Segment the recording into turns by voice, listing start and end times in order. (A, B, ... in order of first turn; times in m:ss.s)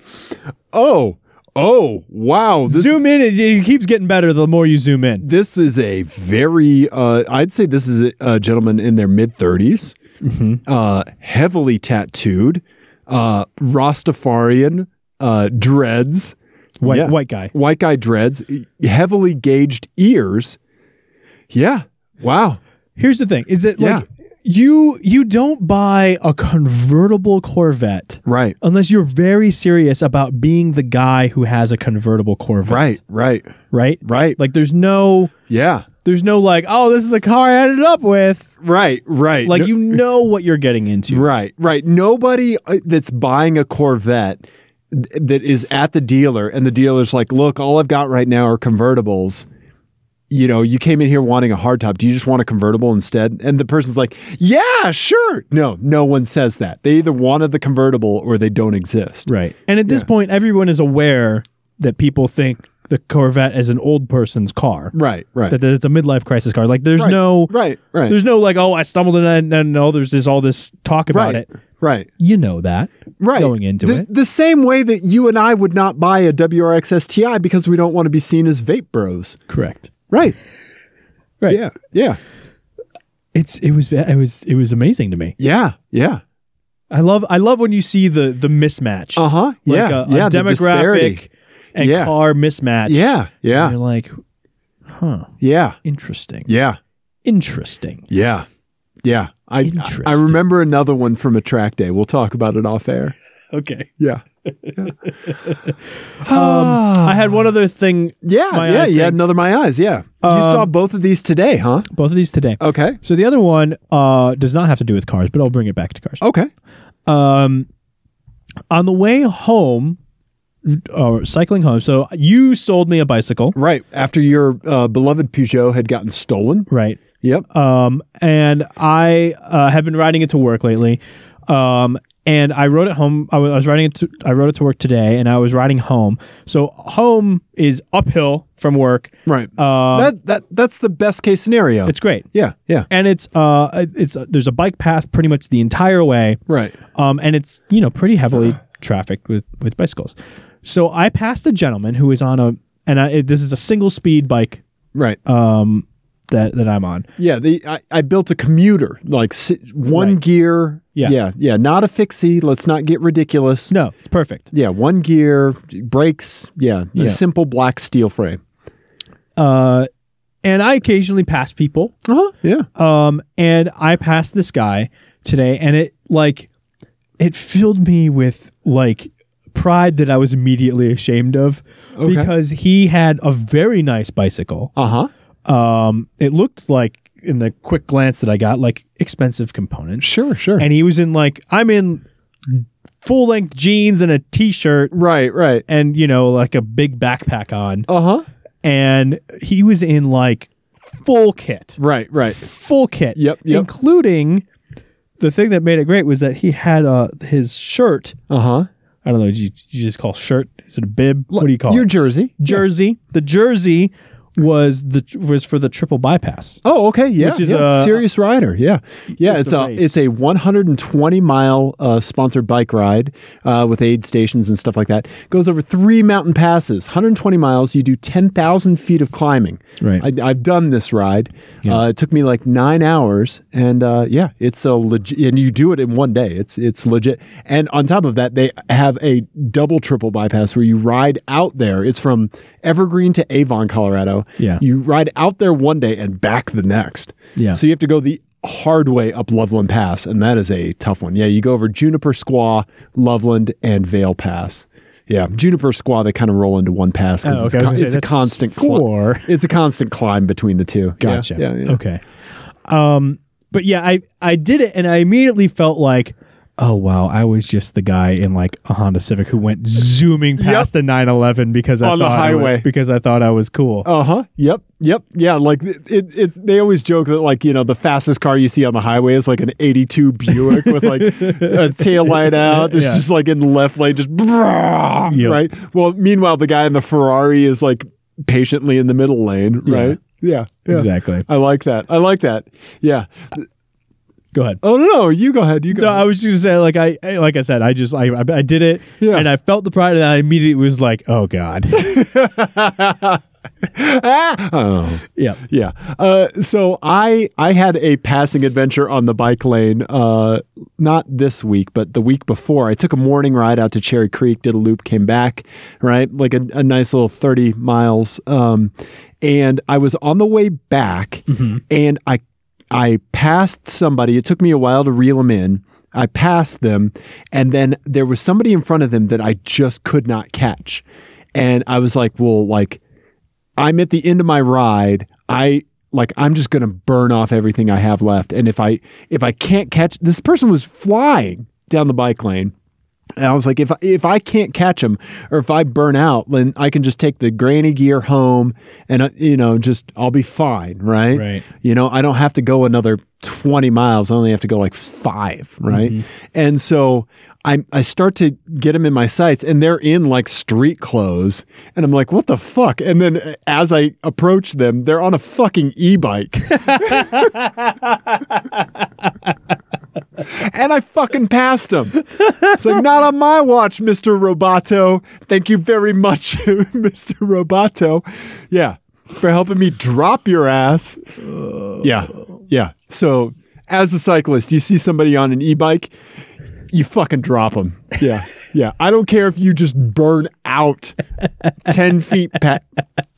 0:00.7-0:03.0 A
0:02.7-0:05.3 B
0:05.2-0:10.0 A
0:10.2-0:10.6 B
0:10.7-0:20.6 A
0:16.8-0:17.5 B
0:21.5-0:22.6 A
0:23.0-0:33.0 B
0:23.8-0:24.0 A
0:28.3-0:28.6 A
0:32.6-0:33.5 A
0:33.7-0:35.3 B
0:34.0-0:34.4 A
0:35.5-0:35.9 A
0:36.0-0:38.5 B
0:38.6-0:40.0 A
0:39.4-0:41.3 B
0:41.1-0:49.5 A
0:50.3-0:59.3 A
0:59.3-1:04.9 B
1:04.9-1:05.6 A
1:05.5-1:07.5 B
1:07.0-1:08.2 A
1:08.1-1:11.5 B
1:11.1-1:12.1 A
1:12.2-1:14.1 B
1:13.2-1:19.4 A
1:19.5-1:19.9 B
1:20.1-1:20.4 A
1:21.5-1:22.2 A
1:23.3-1:25.4 B
1:25.4-1:26.2 A
1:26.9-1:34.2 B
1:29.2-1:31.2 A
1:31.8-1:32.1 A
1:32.9-1:33.8 A
1:34.9-1:35.3 B
1:35.4-1:35.8 A
1:35.8-1:36.5 B
1:36.5-1:36.8 A
1:37.2-1:38.1 B
1:38.1-1:38.5 A
1:39.0-1:43.2 A
1:39.6-1:40.4 B
1:43.5-1:43.9 B
1:44.5-1:49.2 B
1:46.2-1:47.4 A
1:48.2-1:51.9 A
1:50.2-1:50.7 B
1:51.9-1:56.2 B
1:52.6-1:53.0 A
1:56.2-1:56.5 A
1:57.1-1:57.7 B
1:58.7-2:00.0 B
2:00.6-2:03.6 B
2:03.6-2:06.7 A
2:06.7-2:20.1 B
2:19.3-2:22.9 A
2:21.9-2:22.3 B
2:22.9-2:26.4 B
2:26.5-2:26.8 A
2:26.9-2:34.6 B
2:34.9-2:35.2 A
2:35.2-2:37.1 B
2:37.2-2:43.7 A
2:39.9-2:40.2 B
2:43.7-2:44.5 B
2:44.5-2:48.4 A
2:49.4-2:49.9 B
2:50.4-2:51.9 B
2:52.1-2:52.7 A
2:52.8-2:56.5 B
2:57.2-3:04.7 B
3:02.0-3:02.3 A
3:04.8-3:05.1 A
3:05.5-3:14.9 B
3:10.0-3:10.7 A
3:14.9-3:15.6 A
3:15.7-3:17.9 B
3:17.9-3:18.2 A
3:18.6-3:21.8 B
3:21.8-3:22.4 A
3:22.4-3:24.4 B
3:23.2-3:23.7 A
3:25.2-3:28.2 B
3:28.3-3:28.7 A
3:29.0-3:36.6 B
3:31.3-3:32.6 A
3:36.6-4:21.8 A
3:37.2-3:38.0 B
3:39.1-3:40.0 B
3:49.8-3:50.1 B
4:17.2-4:19.3 B
4:21.0-4:22.0 B
4:22.7-4:33.9 B
4:30.4-4:30.7 A
4:31.8-4:32.7 A
4:33.8-4:53.4 A
4:40.4-4:43.0 B
4:45.1-4:45.4 B
4:49.7-4:50.0 B
4:50.7-4:51.2 B
4:54.3-4:54.6 B
4:54.6-4:56.0 A
4:55.7-5:02.0 B
4:59.0-4:59.3 A
5:01.7-5:32.8 A
5:21.3-5:21.6 B
5:33.6-5:42.5 A
5:43.2-6:07.3 A
5:51.1-5:51.4 B
5:55.7-5:56.0 B
6:06.6-6:07.7 B
6:10.2-6:21.0 A
6:12.2-6:12.6 B
6:21.2-6:21.8 B
6:21.8-6:25.9 A
6:26.7-6:31.0 A
6:31.6-6:32.6 A